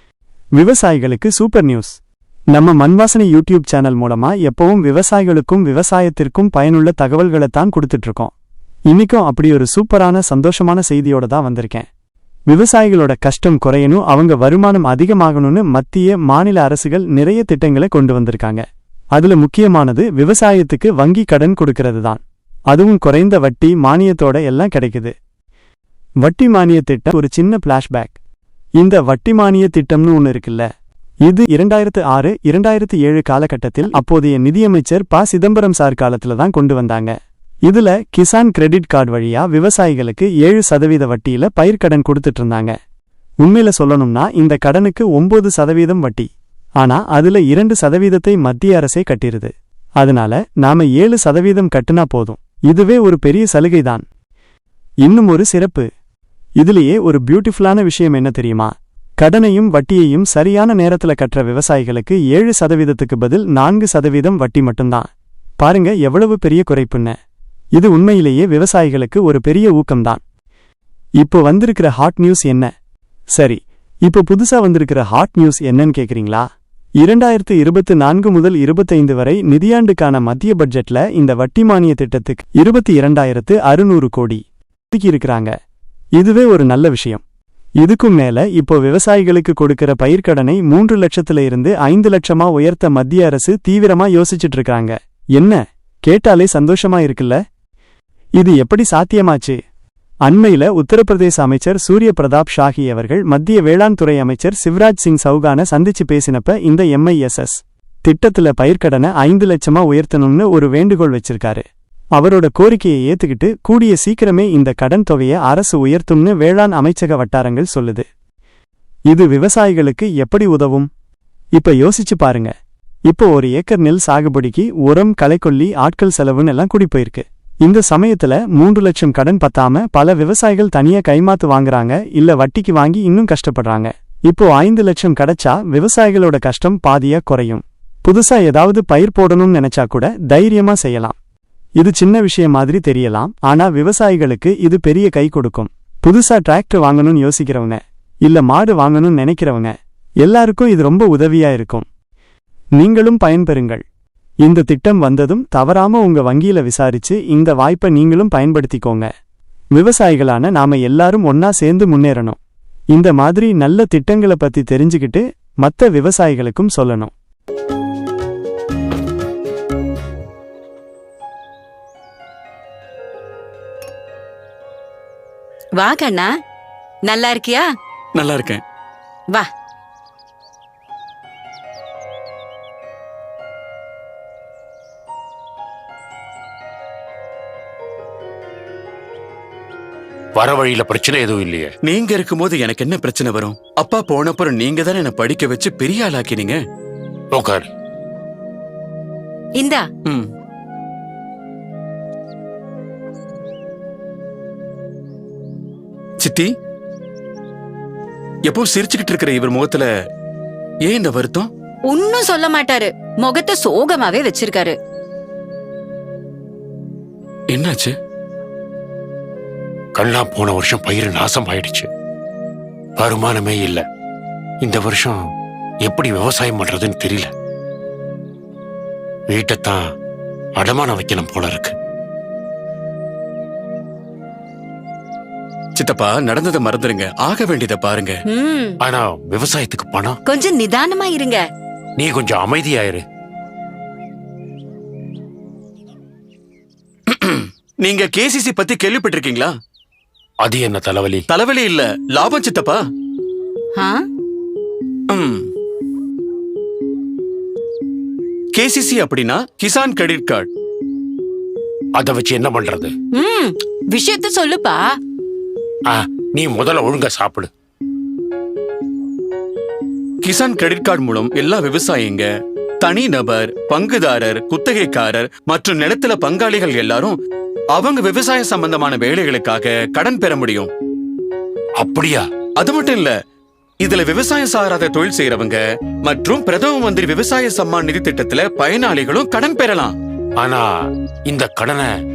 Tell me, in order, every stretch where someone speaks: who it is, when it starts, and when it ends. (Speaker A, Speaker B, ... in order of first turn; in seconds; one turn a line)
Speaker A: 0.6-2.0
Speaker A: 2.5-8.3
Speaker A: 8.9-11.9
Speaker A: 12.5-25.1
Speaker A: 26.2-28.2
Speaker A: 28.8-30.7
Speaker A: 31.2-42.8
Speaker A: 43.4-46.3
Speaker A: 46.8-54.0
Speaker A: 55.0-55.9
Speaker A: 56.6-65.1
Speaker A: 65.6-67.2
Speaker A: 67.7-70.2
Speaker A: 71.2-72.7
Speaker A: 73.3-76.5
Speaker A: 77.0-85.5
Speaker A: 86.2-87.2
Speaker A: 87.8-97.4
Speaker A: 98.4-99.6
Speaker A: 100.2-111.6
Speaker A: 112.2-118.0
Speaker A: 119.1-120.9
Speaker A: 121.5-122.5
Speaker A: 123.1-141.2
Speaker A: 141.8-151.8
Speaker A: 152.8-153.8
Speaker A: 154.4-159.1
Speaker A: 159.7-162.4
Speaker A: 162.9-167.1
Speaker B: 175.8-176.3
Speaker B: 177.1-177.7
Speaker C: 178.1-178.6
Speaker D: 190.3-191.7
Speaker C: 191.8-196.6
Speaker D: 197.3-197.7
Speaker B: 199.6-199.8
Speaker C: 206.2-206.5
Speaker C: 208.4-209.9
Speaker C: 210.8-211.5
Speaker B: 211.9-214.8
Speaker C: 217.5-217.9
Speaker D: 219.9-221.9
Speaker D: 222.9-223.8
Speaker D: 224.6-225.2
Speaker D: 225.8-227.3
Speaker D: 229.3-229.9
Speaker D: 230.6-231.7
Speaker C: 235.7-238.2
Speaker B: 238.3-238.8
Speaker D: 238.8-240.2
Speaker B: 240.2-241.4
Speaker D: 242.0-243.0
Speaker C: 247.1-249.5
Speaker D: 250.4-251.2
Speaker C: 251.3-252.8
Speaker B: 253.7-254.0
Speaker C: 255.1-255.5
Speaker C: 258.5-260.5
Speaker D: 261.9-262.9
Speaker B: 263.1-265.0
Speaker D: 265.9-267.5
Speaker C: 270.2-272.3
Speaker C: 272.8-277.2
Speaker C: 277.7-280.7
Speaker D: 281.8-282.3
Speaker C: 282.6-283.1
Speaker C: 283.8-289.9
Speaker D: 290.4-291.9